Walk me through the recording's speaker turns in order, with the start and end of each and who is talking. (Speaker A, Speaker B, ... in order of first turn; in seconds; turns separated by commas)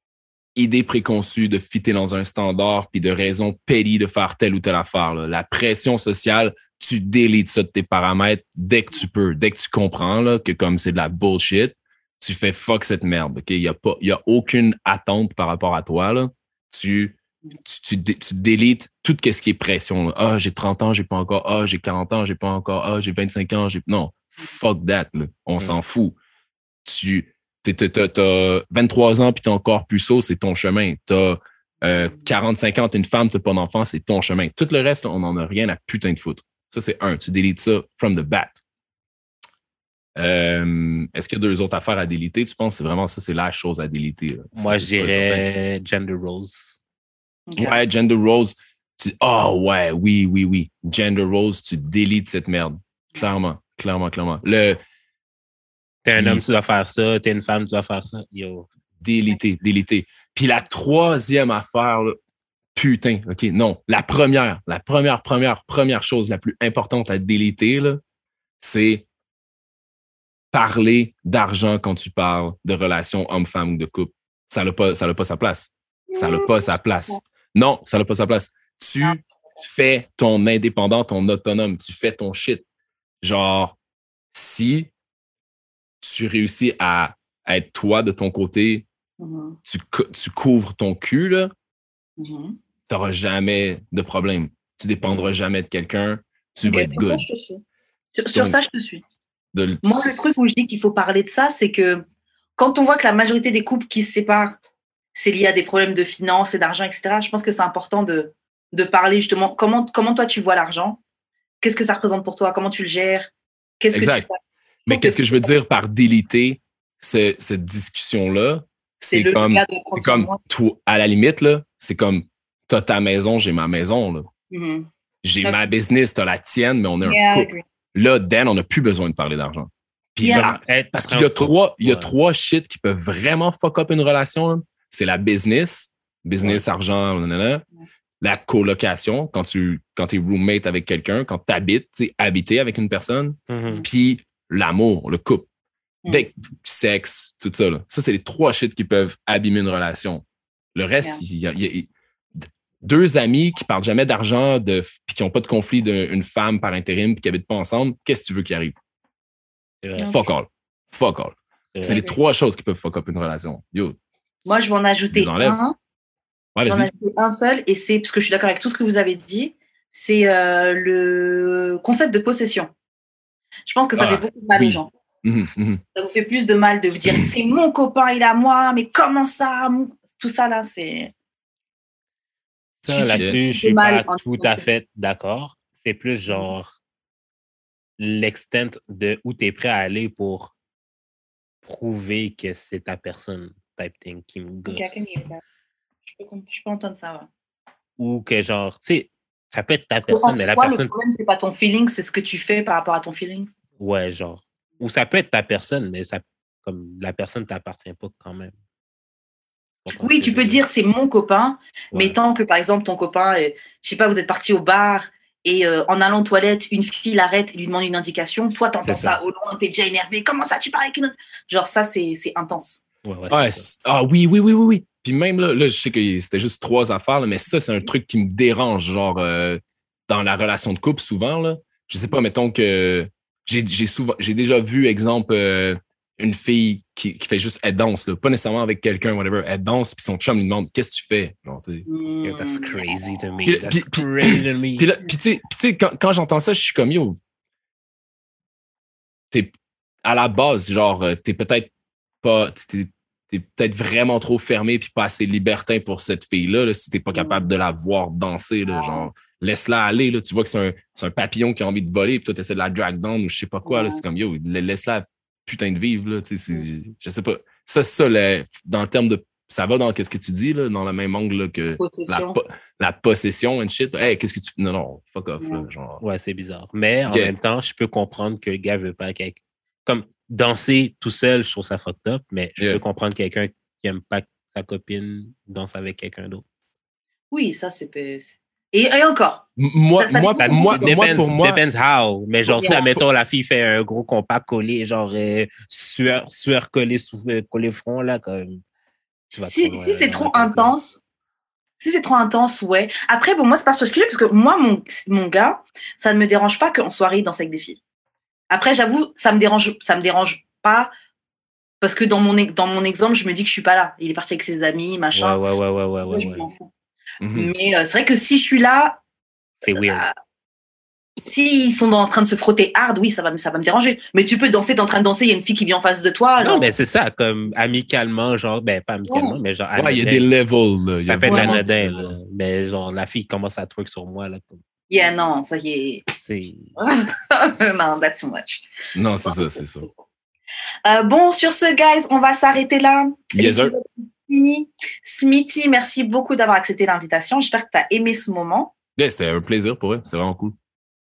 Speaker A: 0.6-26.2, Speaker A: 26.8-38.6, Speaker B: 31.9-32.3, Speaker A: 40.1-45.5, Speaker C: 44.5-46.8, Speaker B: 47.5-47.8, Speaker A: 47.6-54.8, Speaker C: 56.0-58.7, Speaker A: 56.1-56.4, Speaker A: 59.0-62.2, Speaker A: 62.7-68.0, Speaker A: 68.6-69.0, Speaker A: 70.5-82.6, Speaker B: 76.1-76.7, Speaker A: 83.2-83.8, Speaker A: 84.3-84.9, Speaker A: 86.0-88.8, Speaker B: 89.2-89.6, Speaker A: 89.7-91.5, Speaker B: 92.2-92.5, Speaker A: 92.9-97.2, Speaker B: 96.6-97.6, Speaker B: 98.1-99.0, Speaker A: 99.5-100.3, Speaker B: 99.8-102.0, Speaker B: 102.6-104.6, Speaker B: 105.1-111.0, Speaker B: 111.6-113.3, Speaker B: 113.8-115.5, Speaker A: 113.9-114.3, Speaker A: 114.9-124.3, Speaker B: 119.1-120.4, Speaker B: 124.5-124.9, Speaker A: 125.2-137.6, Speaker B: 127.0-127.6, Speaker B: 130.2-130.6, Speaker C: 130.3-132.1, Speaker A: 138.2-145.5, Speaker C: 143.5-143.8, Speaker A: 146.1-150.2, Speaker A: 150.7-151.9, Speaker A: 152.4-158.7, Speaker C: 159.8-160.2, Speaker B: 160.0-160.3, Speaker A: 160.1-165.6, Speaker C: 161.7-162.0, Speaker B: 161.8-162.2, Speaker B: 164.4-165.7, Speaker A: 166.6-166.9, Speaker B: 166.6-172.7, Speaker B: 173.7-174.9, Speaker A: 173.9-175.8, Speaker B: 175.9-181.1, Speaker C: 182.8-186.7, Speaker B: 182.9-184.7, Speaker C: 188.0-190.5, Speaker C: 191.6-195.1, Speaker B: 194.7-195.4, Speaker B: 196.1-197.3, Speaker C: 198.0-200.9, Speaker B: 200.1-203.5, Speaker C: 203.8-208.5, Speaker C: 209.8-210.6, Speaker B: 209.9-222.8, Speaker C: 211.9-212.2, Speaker C: 218.8-219.2, Speaker C: 223.0-223.7, Speaker A: 223.3-241.8, Speaker B: 241.8-243.0, Speaker C: 242.2-244.9, Speaker A: 243.4-247.2, Speaker A: 249.3-251.7, Speaker A: 252.2-276.0, Speaker B: 257.1-257.4, Speaker B: 258.6-259.1, Speaker B: 263.6-264.0, Speaker B: 271.8-272.4, Speaker B: 275.4-275.6, Speaker C: 276.0-286.4, Speaker A: 277.1-277.3, Speaker B: 287.3-291.3, Speaker A: 289.6-291.6, Speaker C: 290.4-298.6, Speaker B: 292.5-293.0, Speaker C: 299.3-300.7, Speaker B: 299.4-301.0, Speaker B: 301.8-307.8, Speaker B: 308.5-310.9, Speaker B: 311.8-315.4, Speaker C: 315.1-316.5, Speaker B: 316.0-316.7, Speaker A: 317.2-317.5, Speaker B: 317.3-319.0, Speaker C: 319.6-320.1, Speaker B: 319.8-320.1, Speaker B: 321.2-326.7, Speaker C: 326.4-330.3, Speaker B: 329.1-329.4, Speaker A: 329.8-332.1, Speaker C: 331.1-334.6, Speaker B: 331.3-331.6, Speaker B: 334.9-336.1, Speaker C: 336.2-336.7, Speaker B: 336.8-338.6, Speaker A: 338.9-339.9, Speaker B: 340.8-348.7, Speaker A: 343.3-343.7, Speaker A: 349.0-350.6